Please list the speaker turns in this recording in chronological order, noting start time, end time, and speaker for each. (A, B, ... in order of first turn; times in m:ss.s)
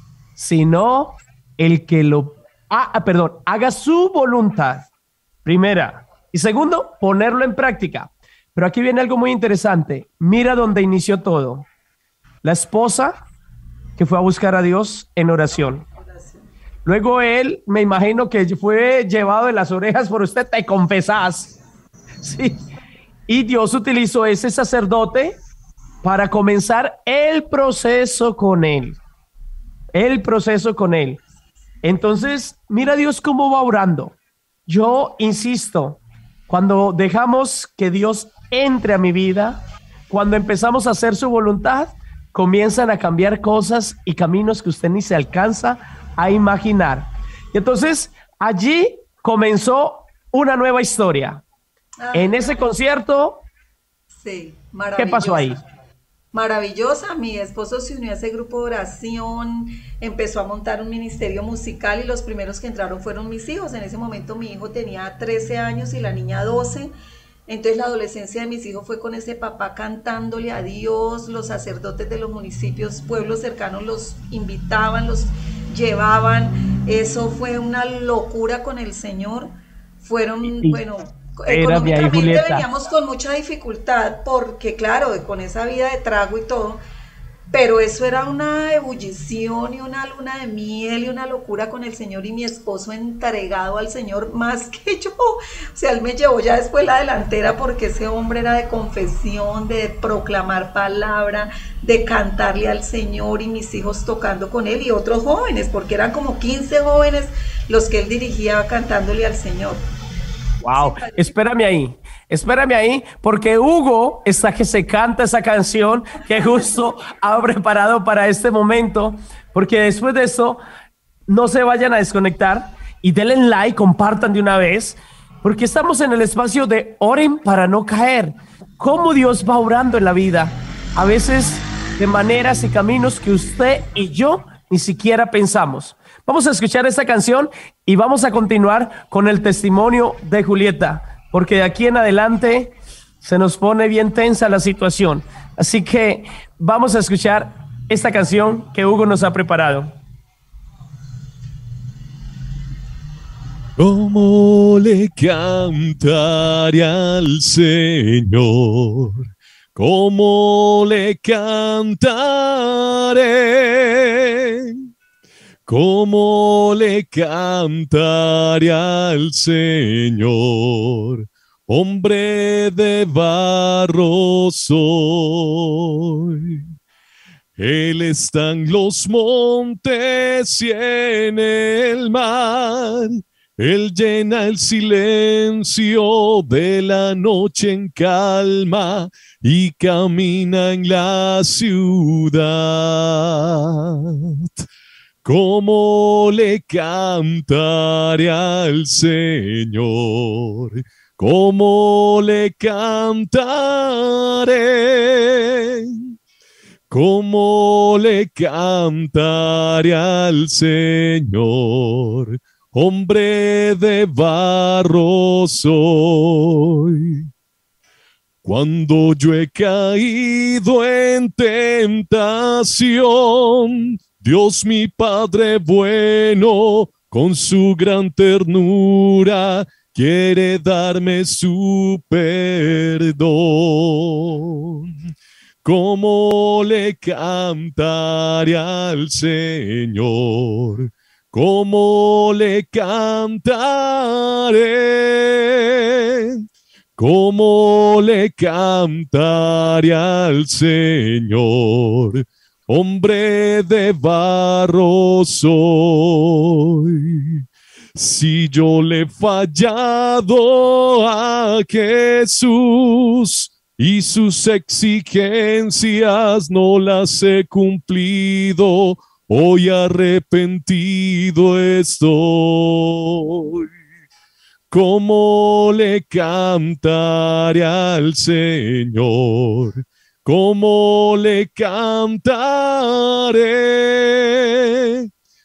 0:00.4-0:04.9 A
0:05.4-0:11.6 A
0:12.4-0:13.2 A
0:14.0-0:15.8 A
0:15.8-0:16.5 B
0:16.8-0:21.5 A
0:22.2-0:22.6 A
0:23.3-0:25.4 A
0:26.0-0:29.0 A
0:29.9-0:31.2 A
0:31.8-0:51.4 A
0:52.0-0:52.7 B
0:52.1-0:53.4 A
0:54.1-0:55.6 B
0:55.0-0:55.6 A
0:56.3-1:06.9 B
1:07.5-1:26.8 B
1:20.4-1:20.8 A
1:21.5-1:22.6 A
1:27.5-1:49.8 B
1:50.6-2:00.6 A
1:50.7-1:51.4 B
1:56.2-1:56.9 B
2:01.3-2:30.0 A
2:33.8-2:44.8 C
2:45.7-2:56.6 C
2:57.6-3:14.6 C
3:15.2-3:26.1 C
3:26.9-3:37.2 C
3:38.4-3:54.9 C
3:55.6-4:06.4 C
4:07.0-4:17.4 C
4:18.0-4:33.7 C
4:34.7-4:45.1 C